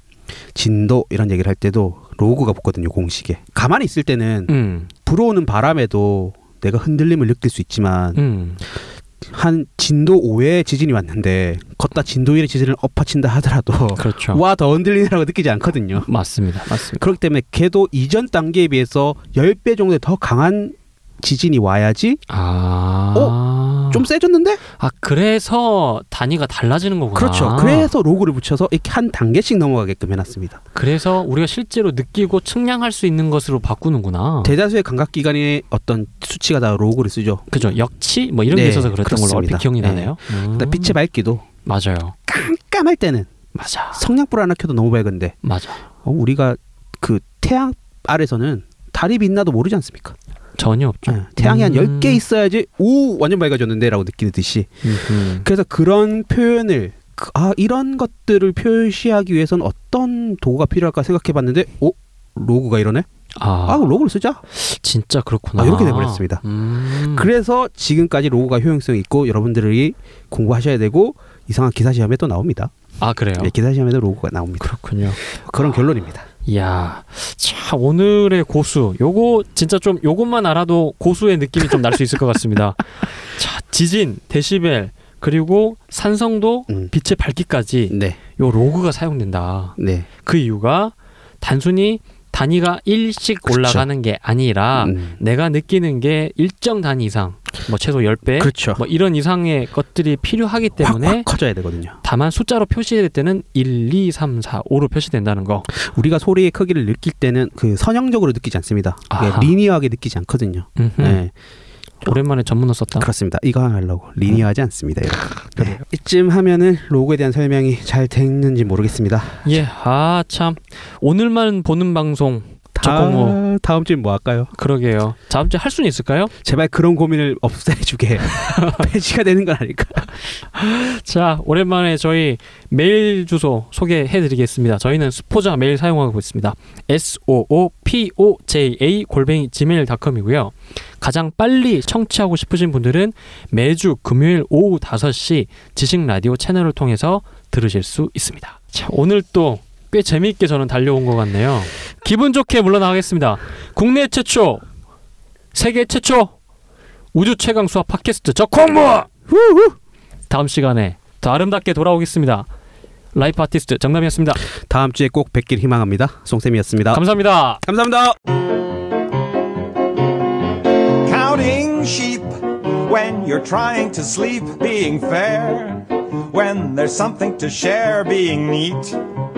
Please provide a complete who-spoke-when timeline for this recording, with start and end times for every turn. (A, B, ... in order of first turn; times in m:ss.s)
0:00.5-0:08.2 A
0:04.5-0:04.9 B
0:08.2-0:08.6 B
0:09.2-0:16.1 A
0:14.0-0:14.4 B
0:16.0-0:17.1 B
0:16.9-0:22.2 A
0:22.3-0:24.0 B
0:23.9-0:24.6 A
0:24.8-0:27.9 B
0:27.1-0:30.6 A
0:30.7-0:34.5 B
0:34.4-0:37.7 A
0:37.5-0:41.0 B
0:38.5-0:41.4 A
0:41.6-0:42.2 B
0:42.2-0:43.3 A
0:43.5-0:44.0 B
0:43.9-0:45.4 A
0:45.4-0:45.8 B
0:46.0-0:50.2 A
0:50.6-0:52.2 B
0:51.1-0:54.8 A
0:54.8-0:55.5 B
0:55.4-1:03.0 A
1:03.4-1:03.8 B
1:03.6-1:04.4 A
1:04.5-1:07.3 B
1:05.6-1:06.4 A
1:07.0-1:12.7 A
1:13.0-1:13.5 B
1:13.4-1:16.3 A
1:14.6-1:15.2 B
1:16.4-1:41.3 B
1:27.9-1:28.2 A
1:29.8-1:30.1 A
1:33.5-1:33.8 A
1:34.8-1:35.2 A
1:38.4-1:38.8 A
1:40.8-1:42.0 A
1:42.0-1:45.7 B
1:45.7-1:51.3 A
1:49.1-1:49.5 B
1:50.8-1:51.2 B
1:52.0-1:53.1 B
1:53.0-1:59.4 A
1:59.4-2:03.4 B
2:02.7-2:04.5 A
2:04.5-2:06.3 B
2:06.4-2:10.3 A
2:08.3-2:08.9 B
2:10.5-2:34.6 B
2:35.5-2:36.3 B
2:37.1-2:39.1 B
2:39.3-2:39.7 A
2:40.3-2:42.5 B
2:43.1-2:44.4 B
2:44.6-2:47.0 A
2:46.9-2:47.6 B
2:47.6-2:48.2 A
2:51.0-2:59.0 C